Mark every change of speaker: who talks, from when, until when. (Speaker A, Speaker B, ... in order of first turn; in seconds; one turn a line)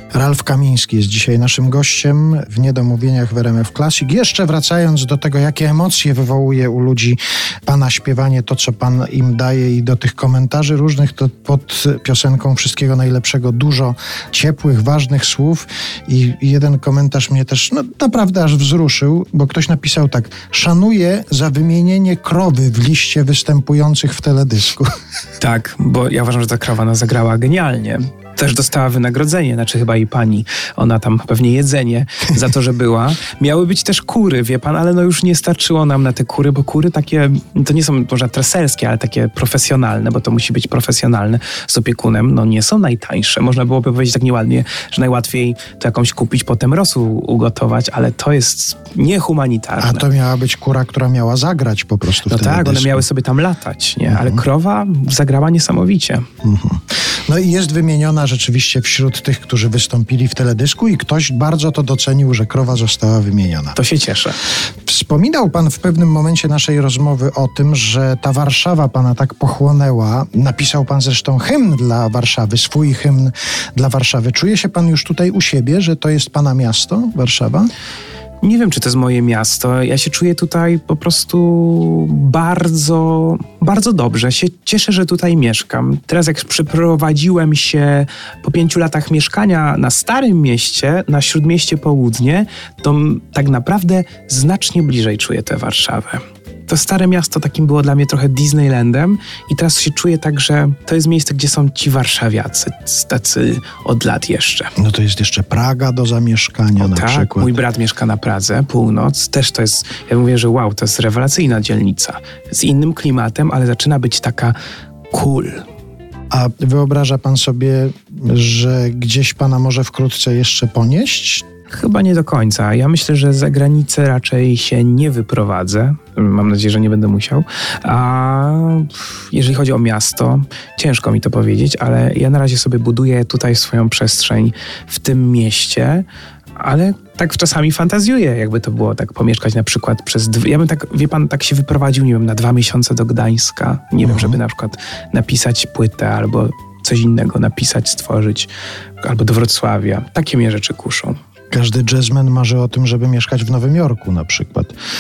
Speaker A: 0.1-24.9
Speaker B: 25.4-50.0
Speaker A: 49.8-53.0
Speaker B: 52.3-56.3
Speaker A: 54.1-54.4
Speaker A: 56.4-63.8
Speaker B: 63.8-64.4
Speaker A: 64.9-77.7
Speaker B: 78.4-104.7
Speaker A: 104.8-107.6
Speaker B: 106.8-114.6
Speaker B: 115.1-115.7
Speaker A: 116.3-121.5
Speaker B: 121.7-148.5
Speaker A: 144.0-144.4
Speaker B: 149.0-151.2
Speaker A: 151.5-154.7